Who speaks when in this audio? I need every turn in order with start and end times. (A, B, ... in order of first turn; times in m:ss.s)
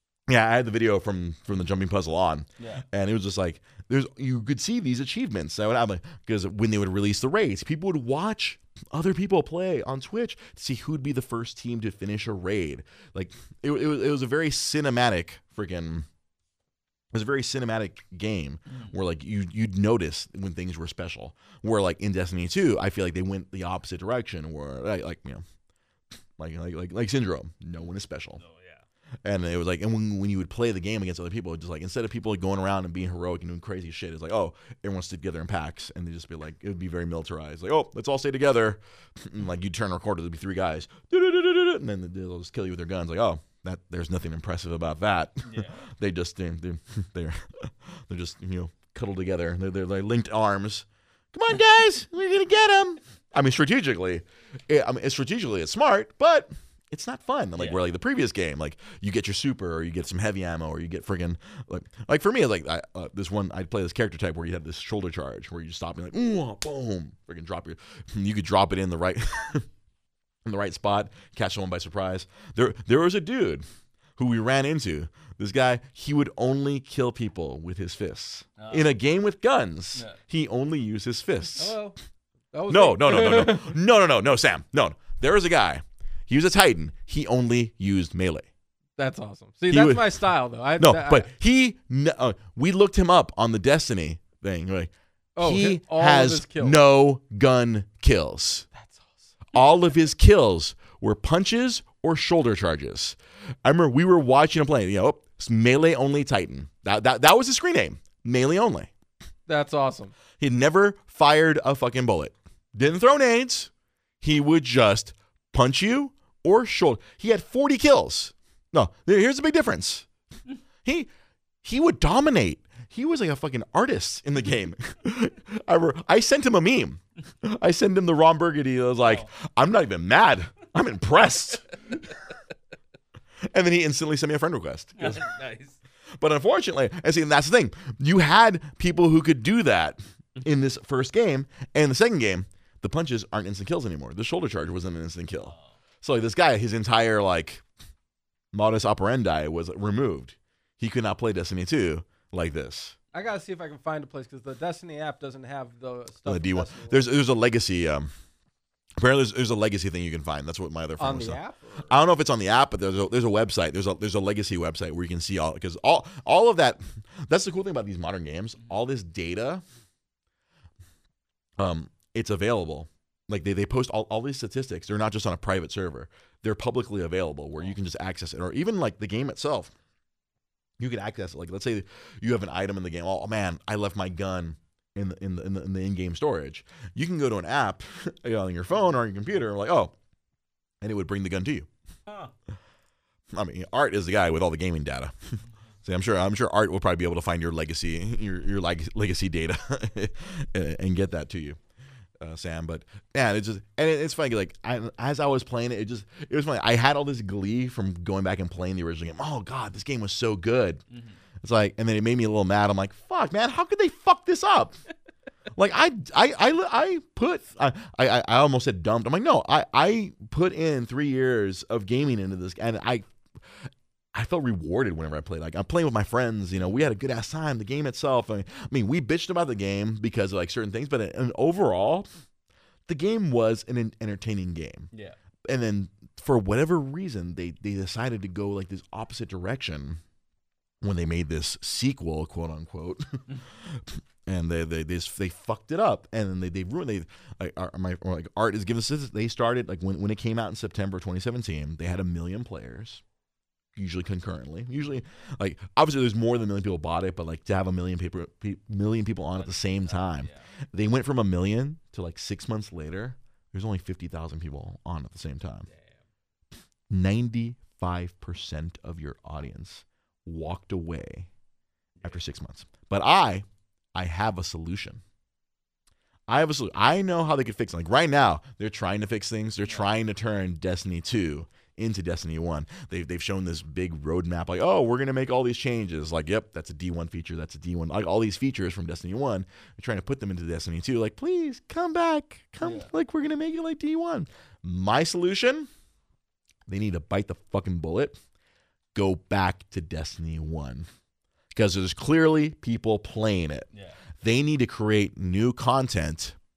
0:00.3-0:16.0 A
0:02.6-0:02.8 B
0:17.1-0:25.4 A
0:18.7-0:19.0 B
0:26.4-0:28.4 A
0:28.4-0:28.8 B
0:29.2-1:09.6 A
0:45.5-0:45.8 B
1:10.4-1:13.6 A
1:14.2-1:21.7 A
1:18.6-1:18.9 B
1:21.6-1:22.0 C
1:22.5-1:23.8 C
1:22.7-1:28.5 A
1:29.0-1:31.3 C
1:29.7-1:30.1 A
1:30.8-1:38.6 A
1:35.4-1:36.8 C
1:38.8-1:39.3 C
1:39.5-1:48.9 A
1:49.5-1:50.1 C
1:50.4-2:00.0 A
2:00.8-2:01.1 A
2:01.6-2:12.1 A
2:09.0-2:09.3 B
2:13.5-2:15.2 A
2:15.0-2:15.8 B
2:16.2-2:27.6 A
2:28.5-2:33.0 A
2:33.1-2:37.0 C
2:36.2-2:38.1 A
2:39.0-2:49.6 A
2:41.0-2:42.0 C
2:51.6-2:59.7 A
3:00.8-3:09.9 A
3:10.8-3:11.7 A
3:12.0-3:12.3 B
3:13.3-3:15.1 A
3:15.8-3:21.6 A
3:22.2-3:30.8 A
3:30.9-3:31.2 B
3:31.4-3:34.8 A
3:35.6-3:43.1 A
3:44.1-3:52.1 A
3:52.9-3:54.9 A
3:55.4-4:00.0 A
4:00.8-4:13.0 A
4:13.7-4:25.7 A
4:19.4-4:20.5 B
4:25.7-4:26.0 B
4:26.9-4:31.3 A
4:32.0-4:35.0 A
4:36.3-4:55.7 A
4:52.6-4:52.9 B
4:56.7-4:58.2 A
4:58.9-5:00.8 A
5:01.5-5:03.7 A
5:03.7-5:04.0 B
5:04.2-5:06.3 A